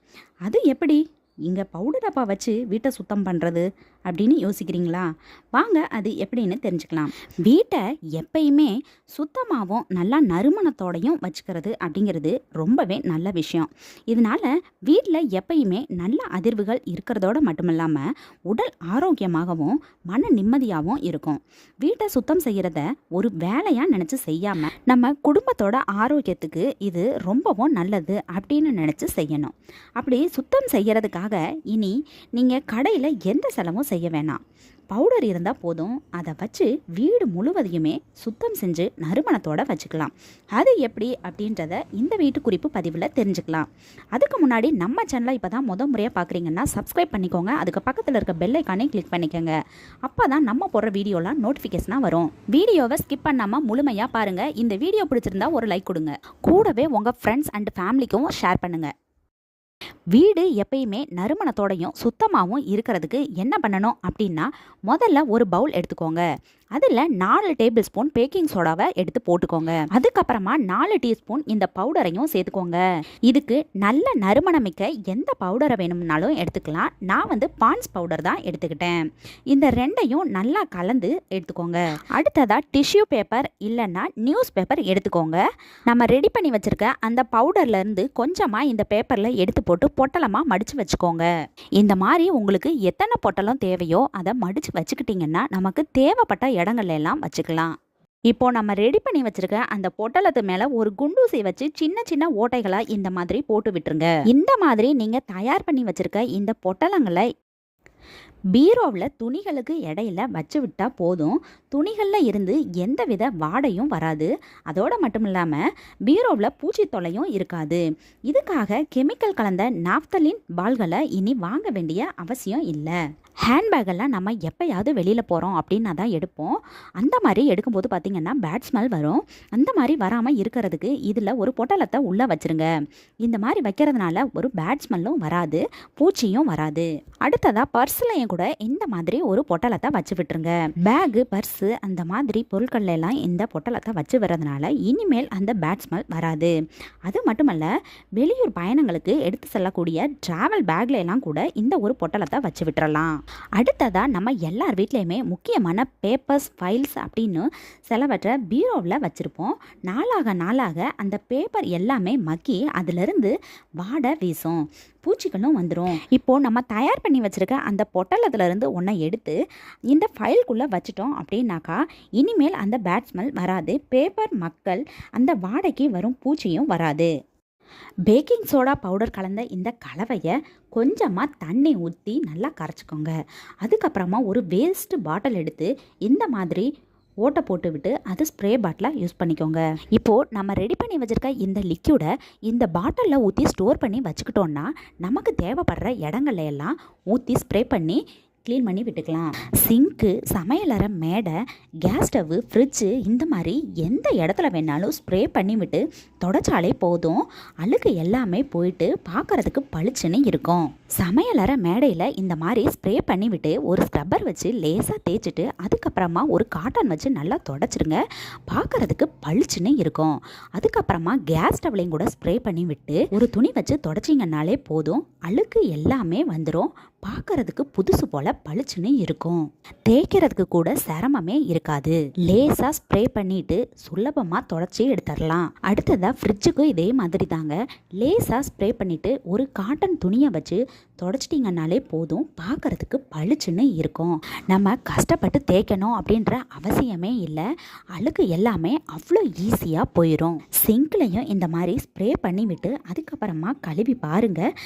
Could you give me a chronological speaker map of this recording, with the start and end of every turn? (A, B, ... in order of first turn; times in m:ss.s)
0:00.4-0:34.4 A
0:34.9-0:58.9 A
1:00.1-1:06.2 A
1:06.8-1:19.0 A
1:19.5-1:31.3 A
1:31.8-1:37.7 A
1:38.3-1:47.3 A
1:48.5-2:12.7 A
2:13.2-2:26.5 A
2:27.1-2:49.4 A
2:49.9-2:57.1 A
2:58.1-3:06.7 A
3:07.2-4:07.4 A
4:08.0-4:14.4 A